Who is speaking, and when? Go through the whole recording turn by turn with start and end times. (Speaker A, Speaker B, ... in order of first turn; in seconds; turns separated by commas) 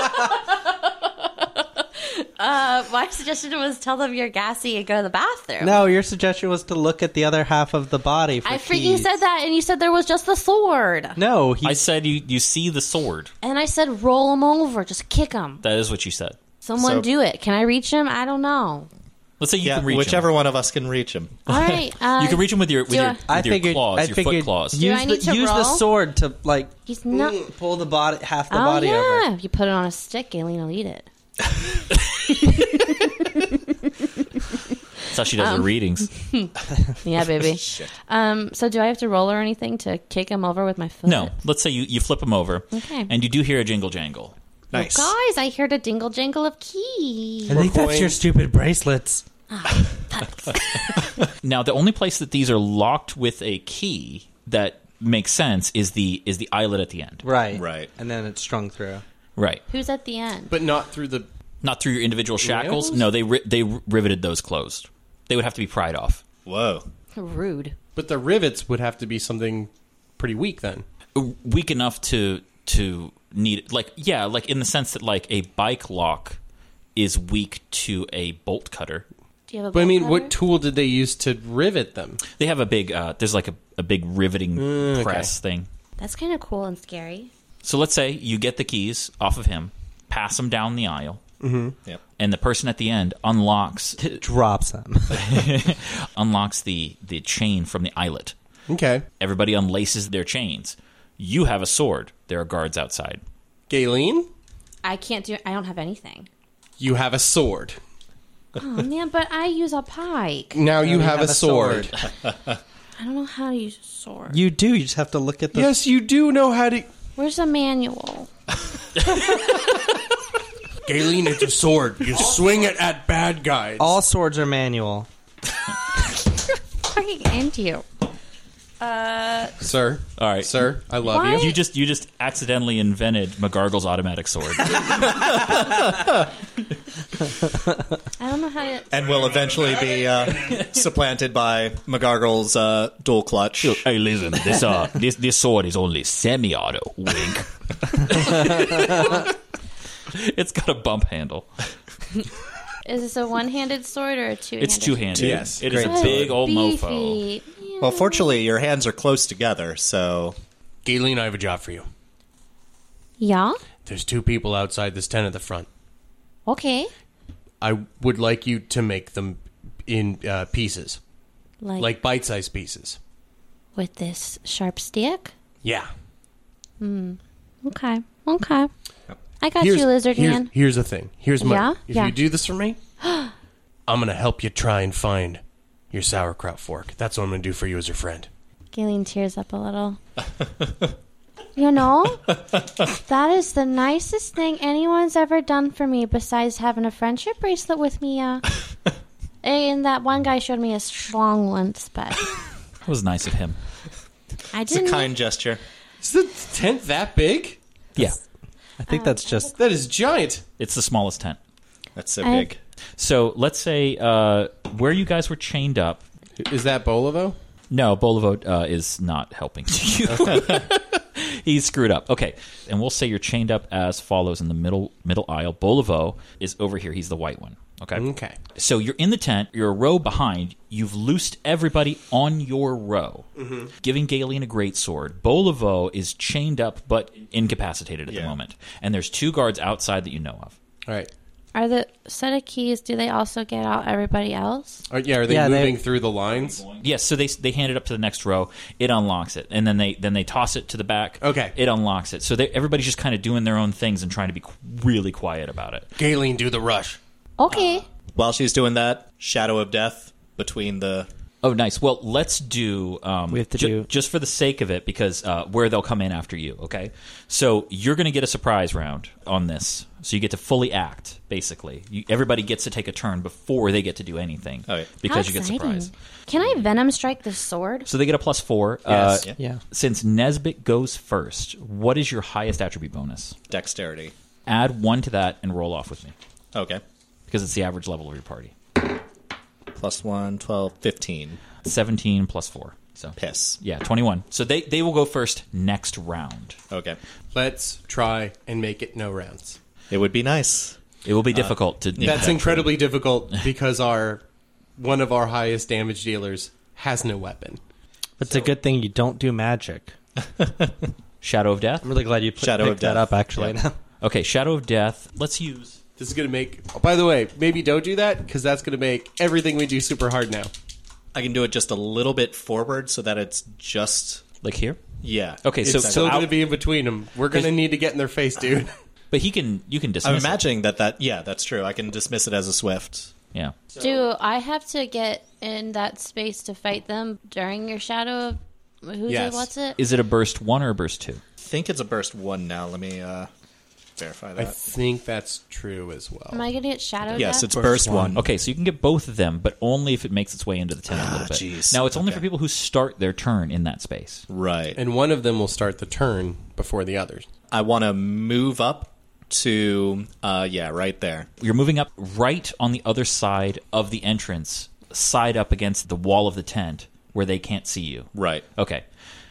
Speaker A: 1.3-5.8, Speaker B: 5.6-9.1, Speaker A: 8.4-11.2, Speaker B: 11.2-11.8, Speaker C: 11.6-13.3, Speaker A: 13.4-15.6, Speaker C: 15.6-16.4, Speaker A: 16.6-18.9, Speaker D: 16.8-17.1, Speaker C: 19.4-20.3, Speaker D: 19.6-21.8, Speaker A: 21.5-23.2, Speaker C: 22.2-24.8, Speaker B: 23.3-26.7, Speaker A: 24.8-25.9, Speaker A: 26.9-27.5, Speaker E: 27.1-27.4, Speaker B: 27.5-29.3, Speaker A: 28.5-31.1, Speaker A: 32.3-33.7, Speaker C: 35.1-36.1, Speaker A: 35.3-41.3, Speaker D: 37.4-37.9, Speaker C: 41.1-44.4, Speaker A: 42.7-43.1, Speaker D: 44.7-45.1, Speaker A: 44.7-47.6, Speaker B: 47.5-49.2, Speaker E: 47.5-48.2, Speaker A: 49.5-51.1, Speaker C: 51.4-57.2, Speaker B: 57.2-59.0, Speaker D: 57.5-57.9, Speaker C: 59.4-59.6, Speaker A: 59.7-60.6, Speaker E: 60.5-61.3, Speaker C: 61.6-66.2, Speaker E: 62.4-63.0, Speaker D: 66.5-66.9, Speaker A: 67.2-67.8, Speaker E: 68.0-70.8, Speaker C: 71.2-76.4, Speaker C: 77.0-79.0, Speaker A: 79.5-80.4, Speaker E: 79.7-82.2, Speaker C: 82.4-85.7, Speaker E: 84.6-85.3, Speaker A: 86.0-87.3, Speaker C: 87.6-91.2, Speaker E: 91.4-91.8, Speaker C: 92.2-94.2, Speaker B: 94.0-95.4, Speaker C: 95.1-98.3, Speaker E: 98.7-99.0, Speaker C: 99.2-103.2, Speaker E: 103.7-104.3, Speaker A: 104.8-106.3, Speaker E: 106.8-107.8, Speaker A: 108.6-110.6, Speaker E: 110.5-111.9, Speaker B: 110.8-111.9, Speaker D: 112.2-112.6, Speaker A: 113.0-114.4, Speaker B: 114.3-115.8, Speaker E: 115.5-116.9, Speaker A: 117.2-118.3, Speaker E: 120.8-124.0, Speaker B: 123.8-125.1, Speaker A: 126.8-127.8, Speaker A: 128.8-129.6, Speaker E: 129.6-131.5, Speaker C: 130.2-135.7, Speaker A: 131.0-131.6, Speaker A: 138.2-139.0, Speaker D: 138.9-143.8, Speaker C: 143.6-149.3, Speaker C: 150.1-151.5, Speaker A: 152.8-158.3, Speaker C: 154.6-157.2, Speaker E: 155.2-155.7, Speaker D: 155.2-156.3, Speaker B: 155.6-156.1, Speaker D: 157.8-160.4, Speaker E: 160.8-161.9, Speaker A: 163.2-163.6, Speaker E: 163.8-165.7, Speaker A: 166.5-166.9, Speaker E: 167.6-171.0, Speaker A: 171.6-172.0, Speaker E: 171.8-173.0, Speaker A: 173.8-175.3, Speaker E: 175.6-175.9, Speaker A: 176.8-178.7, Speaker A: 179.4-180.5, Speaker E: 179.6-182.8, Speaker A: 181.4-182.2, Speaker A: 183.0-183.3, Speaker E: 183.9-188.3, Speaker A: 188.7-190.0, Speaker A: 191.6-198.5, Speaker A: 199.4-202.4, Speaker C: 202.9-203.6, Speaker A: 204.5-205.1, Speaker D: 204.7-205.6, Speaker E: 206.0-207.6, Speaker B: 208.8-209.5, Speaker A: 208.9-209.8, Speaker E: 209.6-210.4, Speaker C: 210.6-211.4, Speaker D: 212.0-212.6, Speaker A: 212.2-212.5, Speaker C: 213.0-216.1, Speaker E: 216.4-217.4, Speaker C: 217.7-228.0, Speaker E: 227.9-228.4, Speaker C: 228.6-233.3, Speaker E: 233.4-233.7, Speaker C: 233.8-240.6, Speaker D: 238.1-238.3, Speaker A: 241.6-244.8, Speaker E: 244.9-246.7, Speaker B: 245.3-245.8, Speaker C: 246.6-255.9, Speaker E: 251.2-251.6, Speaker E: 256.0-257.0, Speaker A: 257.4-257.9, Speaker D: 258.1-261.1, Speaker C: 261.4-275.9, Speaker B: 263.3-263.9, Speaker A: 275.1-277.9, Speaker C: 277.9-283.4, Speaker D: 278.9-279.4, Speaker D: 283.5-284.1, Speaker C: 284.5-286.1, Speaker D: 286.5-286.8, Speaker C: 287.3-288.6, Speaker D: 289.7-291.4, Speaker C: 291.6-296.6, Speaker D: 293.2-293.6, Speaker D: 296.7-297.0, Speaker E: 297.3-299.6, Speaker D: 299.9-300.8, Speaker C: 301.1-302.7, Speaker D: 301.3-302.7, Speaker E: 302.0-304.2, Speaker E: 304.8-307.6, Speaker B: 308.2-309.9, Speaker D: 310.2-310.9, Speaker C: 311.2-311.9, Speaker B: 311.8-313.8, Speaker D: 312.4-313.6, Speaker C: 314.0-315.8, Speaker E: 316.0-320.5, Speaker D: 321.1-324.2, Speaker C: 324.4-324.8, Speaker D: 325.0-326.3, Speaker C: 325.4-326.5, Speaker E: 325.7-328.7, Speaker C: 329.1-330.4, Speaker D: 330.0-333.1, Speaker C: 333.3-333.6, Speaker A: 333.8-339.8, Speaker E: 339.1-339.5, Speaker C: 339.8-341.2, Speaker D: 341.4-343.3, Speaker D: 344.0-344.6, Speaker E: 344.4-346.4, Speaker A: 346.3-347.5, Speaker C: 347.1-347.4, Speaker D: 347.1-348.2, Speaker B: 347.5-348.2, Speaker C: 348.2-354.2, Speaker D: 350.9-352.2, Speaker D: 354.3-354.8, Speaker E: 354.8-357.3, Speaker D: 357.5-361.3, Speaker C: 361.4-368.8, Speaker D: 368.1-368.4